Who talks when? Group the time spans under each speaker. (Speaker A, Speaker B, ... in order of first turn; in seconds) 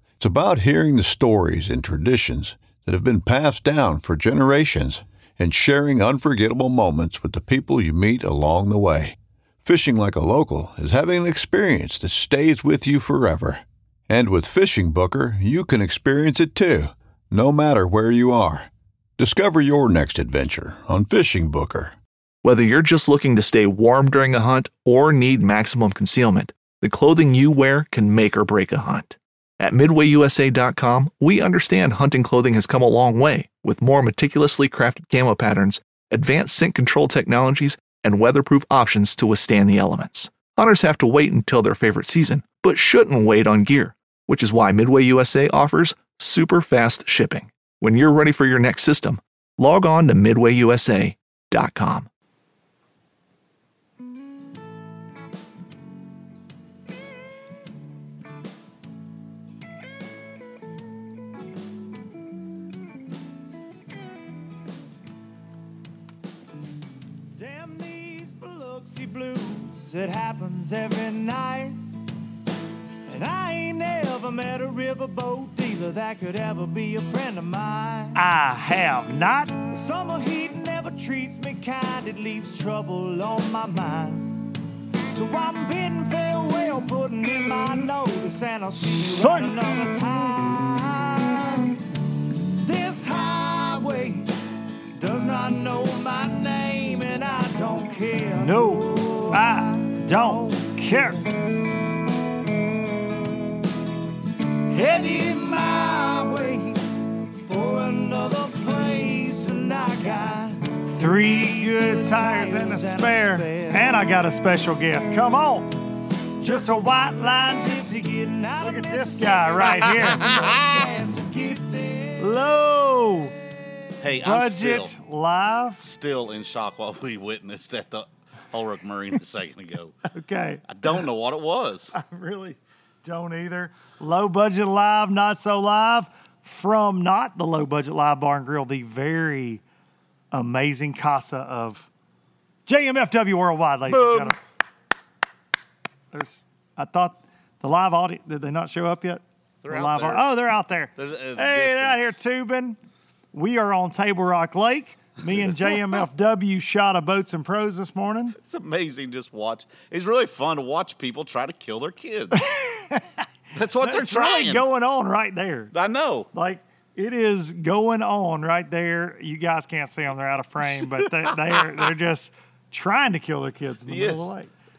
Speaker A: 0.2-22.0
Speaker B: 22.4-52.1
Speaker C: 67.4-68.2, 78.1-79.7, 88.9-90.5, 98.3-101.3, 110.8-115.7, 116.4-117.7, 118.6-120.6, 122.2-123.4, 124.2-125.8, 130.1-131.1, 131.9-139.6, 140.3-141.9, 142.7-144.4, 146.1-152.8, 153.3-158.4, 162.3-163.2, 163.8-165.7, 166.3-174.5
Speaker D: 67.6-71.8, 73.1-78.2, 79.7-84.5, 85.0-91.8, 92.4-94.4, 94.9-99.4, 100.3-100.7, 104.5-113.9, 116.5-122.2
Speaker E: 119.6-120.9, 124.0-124.9, 125.8-130.0, 130.7-131.9, 143.9-144.4, 149.6-150.2, 151.0-152.1, 158.4-162.5, 163.6-164.7, 165.7-166.3, 170.6-171.9, 173.9-174.3